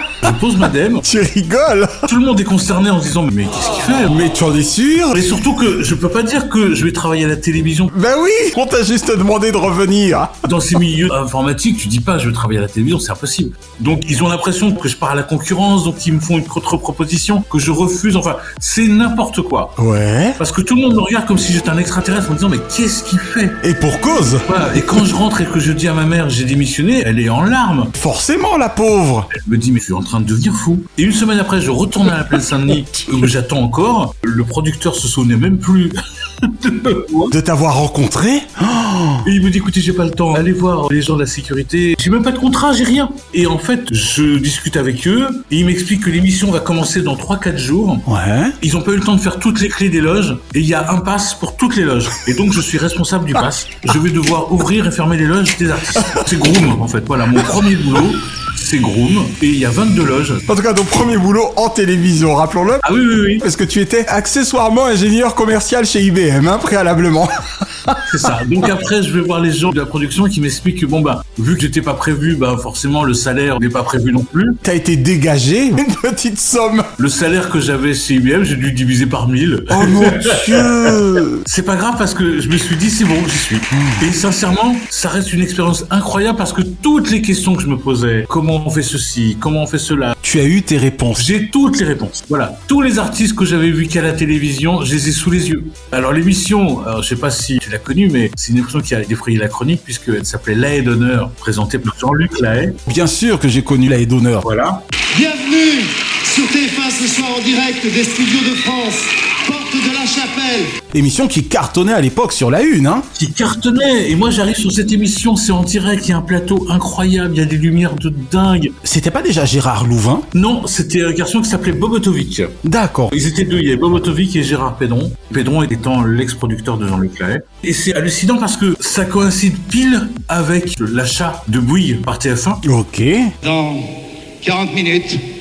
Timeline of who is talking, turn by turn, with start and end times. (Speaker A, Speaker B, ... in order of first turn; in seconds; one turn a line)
Speaker A: 0.2-1.1
Speaker B: 1.0-2.1
Speaker A: 2.1-4.2
Speaker B: 4.1-5.1
Speaker A: 5.1-7.9
Speaker B: 7.9-10.4
Speaker A: 10.4-19.8
Speaker B: 19.8-20.4
Speaker A: 20.4-23.6
Speaker B: 23.6-24.5
Speaker A: 24.5-27.9
Speaker B: 27.9-29.3
Speaker A: 29.3-37.3
Speaker B: 32.7-33.3
Speaker B: 37.3-39.3
Speaker A: 39.2-48.1
Speaker B: 48.1-48.5
Speaker A: 48.6-60.4
Speaker B: 60.5-62.8
Speaker A: 62.8-63.5
Speaker B: 63.4-67.3
Speaker A: 68.1-74.6
Speaker B: 74.6-76.9
Speaker A: 77.0-80.9
Speaker B: 79.7-81.4
Speaker A: 81.5-90.2
Speaker B: 83.7-84.1
Speaker B: 90.2-91.3
Speaker A: 91.2-102.8
Speaker B: 102.9-104.5
Speaker A: 104.4-104.8
Speaker C: 105.1-110.7
Speaker B: 110.9-113.1
Speaker A: 113.2-118.8
Speaker B: 118.8-120.2
Speaker A: 120.3-122.6
Speaker B: 122.6-123.1
Speaker A: 123.1-132.6
Speaker B: 132.6-133.3
Speaker C: 133.4-133.9
Speaker C: 134.4-135.2